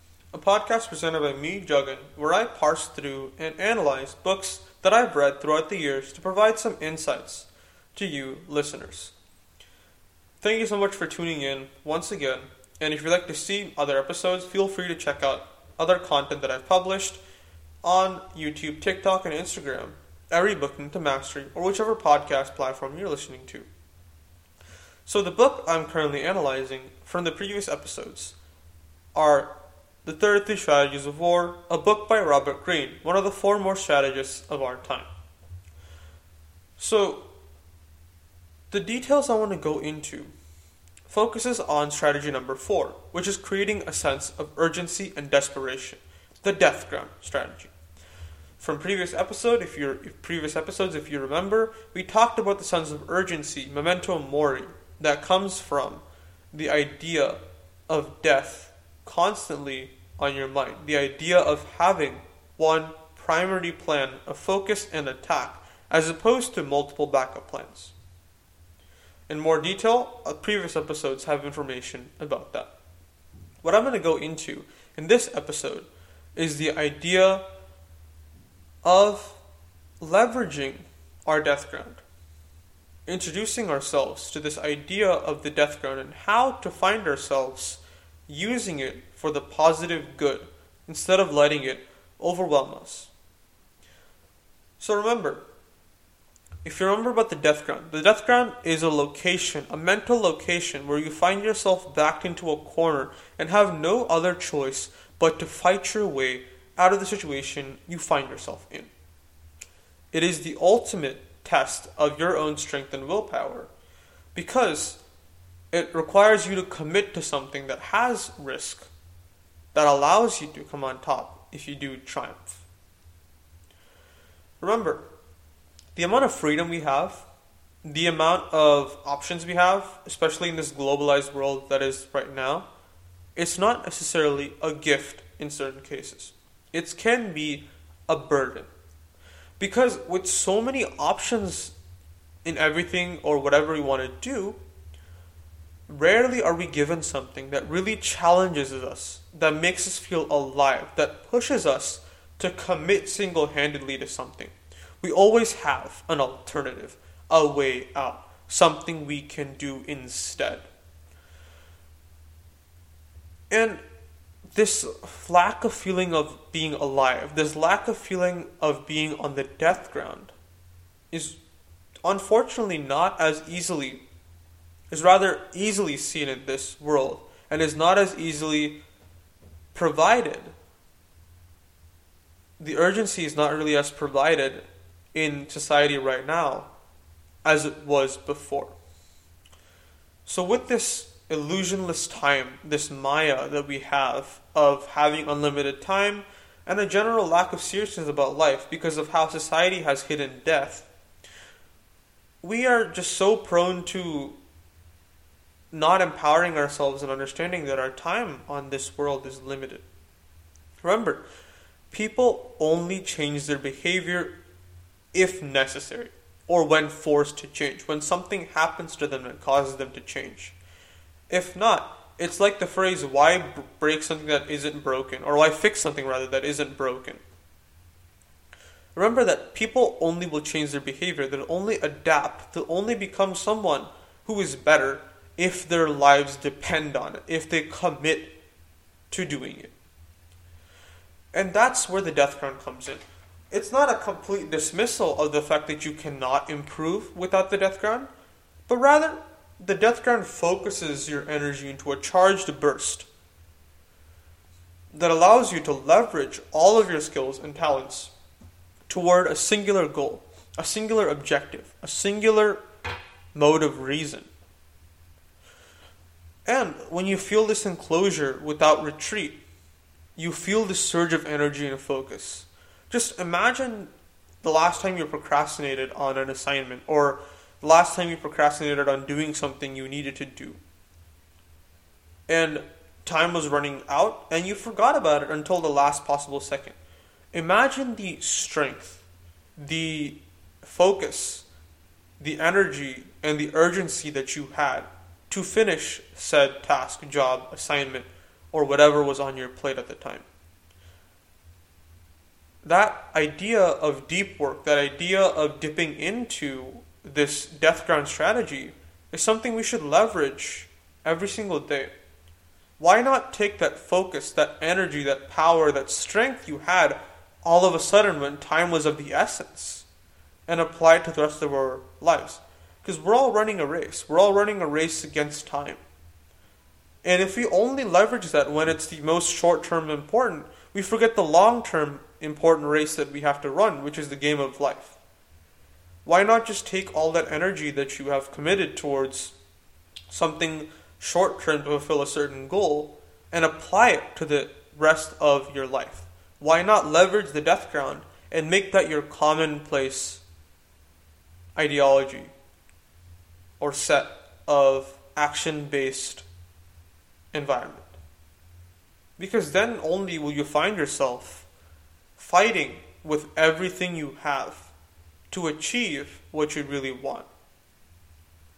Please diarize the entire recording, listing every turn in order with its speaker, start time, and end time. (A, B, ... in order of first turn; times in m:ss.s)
0:00.3-0:09.2 A
0:10.4-0:17.2 A
0:17.8-0:23.7 A
0:25.1-0:28.4 A
0:29.1-0:35.1 A
0:36.8-0:37.3 A
0:38.7-0:40.3 A
0:41.1-0:47.7 A
0:48.6-1:08.0 A
1:09.3-1:12.7 A
1:13.6-1:17.4 A
1:18.8-1:19.4 A
1:20.0-1:22.0 A
1:23.1-1:33.1 A
1:34.8-1:35.4 A
1:36.6-1:48.9 A
1:50.1-1:53.7 A
1:54.4-1:55.0 A
1:55.7-1:58.9 A
1:59.7-2:02.6 A
2:04.6-2:05.1 A
2:06.0-2:07.3 A
2:07.8-2:12.7 A
2:13.4-2:18.7 A
2:19.6-2:21.8 A
2:22.4-2:24.6 A
2:25.9-2:40.7 A
2:43.5-2:43.8 A
2:44.5-2:50.4 A
2:51.1-2:51.4 A
2:52.0-2:54.0 A
2:54.9-2:58.8 A
2:59.7-3:00.6 A
3:02.6-3:06.7 A
3:07.4-3:08.8 A
3:10.3-3:20.9 A
3:22.4-3:24.4 A
3:25.7-3:29.8 A
3:30.8-3:31.2 A
3:31.9-3:34.4 A
3:35.1-3:40.6 A
3:41.3-3:47.2 A
3:49.0-3:58.4 A
3:59.1-3:59.7 A
4:01.3-4:08.1 A
4:08.7-4:13.1 A
4:14.9-4:18.1 A
4:18.9-4:22.6 A
4:23.4-4:24.3 A
4:26.5-4:29.4 A
4:30.2-4:40.6 A
4:42.3-4:46.8 A
4:47.3-4:51.5 A
4:52.2-5:00.3 A
5:02.6-5:11.9 A
5:12.8-5:19.9 A
5:20.5-5:25.8 A
5:27.0-5:35.0 A
5:36.0-5:39.3 A
5:40.1-5:50.2 A
5:51.6-5:52.3 A
5:53.6-5:56.3 A
5:57.3-5:57.9 A
5:59.2-6:01.5 A
6:02.2-6:04.7 A
6:05.3-6:07.3 A